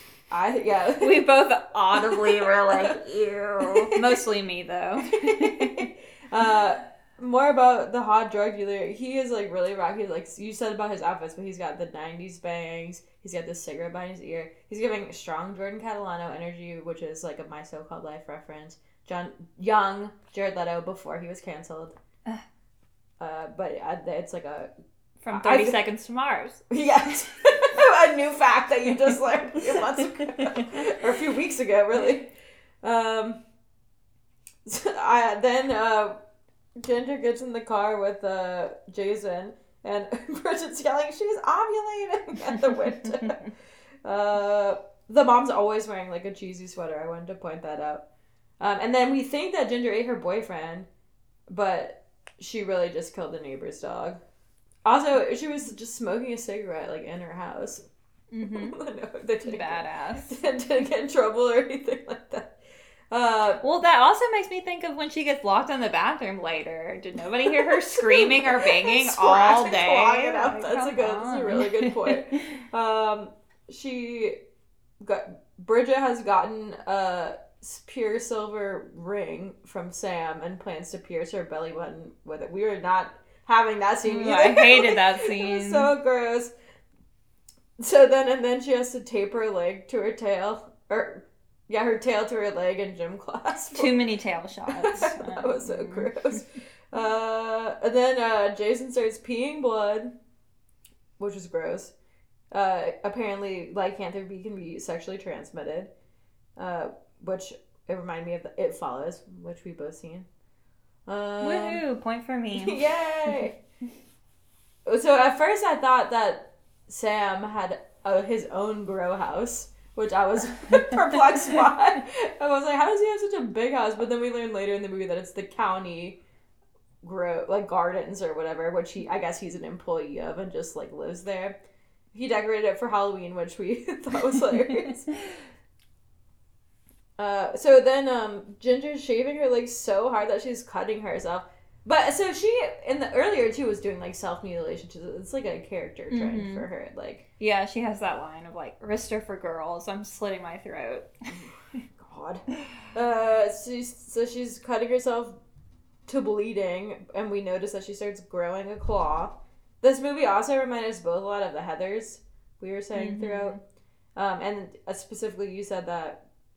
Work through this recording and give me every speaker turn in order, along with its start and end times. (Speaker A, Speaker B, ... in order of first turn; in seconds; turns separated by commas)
Speaker A: 0.3-1.3, Speaker B: 1.0-5.9, Speaker A: 1.9-3.0, Speaker A: 3.6-4.2, Speaker A: 5.1-21.9, Speaker A: 23.2-24.7, Speaker B: 25.2-26.6, Speaker A: 25.3-25.8, Speaker A: 26.7-32.3, Speaker A: 32.8-33.4, Speaker A: 34.6-36.2, Speaker A: 36.8-43.4, Speaker A: 44.0-48.1, Speaker A: 48.6-50.9, Speaker A: 51.5-54.2, Speaker A: 54.9-57.9, Speaker B: 58.3-58.8, Speaker A: 58.4-62.6, Speaker B: 59.4-60.4, Speaker A: 63.1-63.6, Speaker B: 63.6-72.2, Speaker A: 67.4-74.4, Speaker A: 75.0-86.5, Speaker B: 84.1-85.9, Speaker A: 87.8-94.0, Speaker B: 93.7-96.1, Speaker A: 94.7-100.1, Speaker A: 101.2-101.9, Speaker A: 102.5-105.9, Speaker A: 106.6-110.3, Speaker A: 111.1-111.8, Speaker B: 111.4-112.8, Speaker A: 112.5-113.6, Speaker A: 114.8-126.2, Speaker A: 127.0-131.6, Speaker A: 132.1-135.1, Speaker A: 137.2-147.2, Speaker B: 146.1-146.7, Speaker B: 147.4-151.1, Speaker A: 151.3-155.4, Speaker A: 156.1-163.6, Speaker B: 162.9-163.6, Speaker A: 164.1-166.2